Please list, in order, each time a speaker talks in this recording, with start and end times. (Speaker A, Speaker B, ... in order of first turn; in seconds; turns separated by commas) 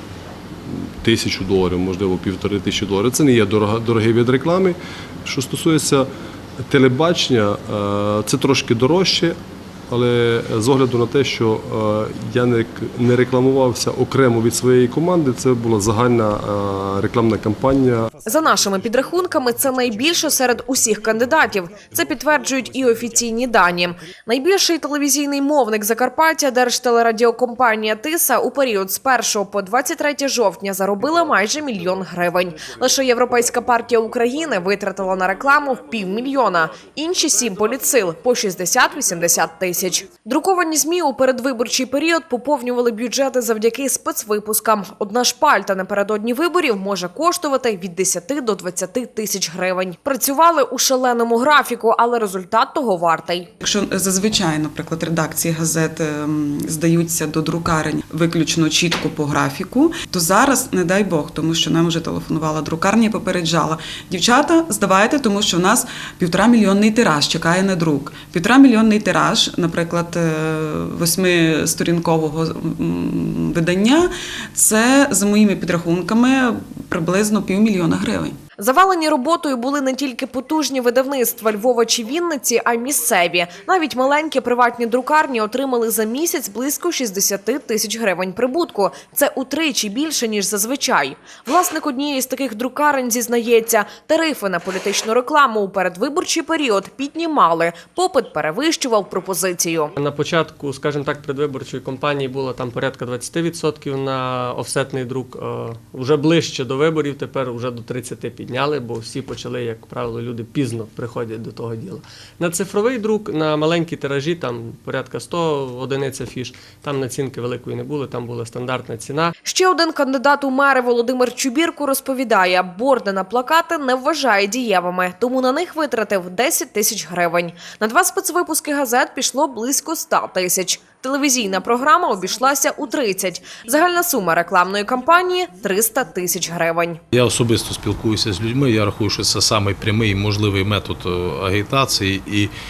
Speaker A: 0.7-6.1, Speaker A: 6.7-9.4, Speaker A: 9.9-18.1, Speaker B: 18.2-53.5, Speaker C: 53.6-78.3, Speaker B: 78.6-99.9, Speaker D: 100.0-119.3, Speaker B: 119.5-137.0, Speaker E: 137.1-142.5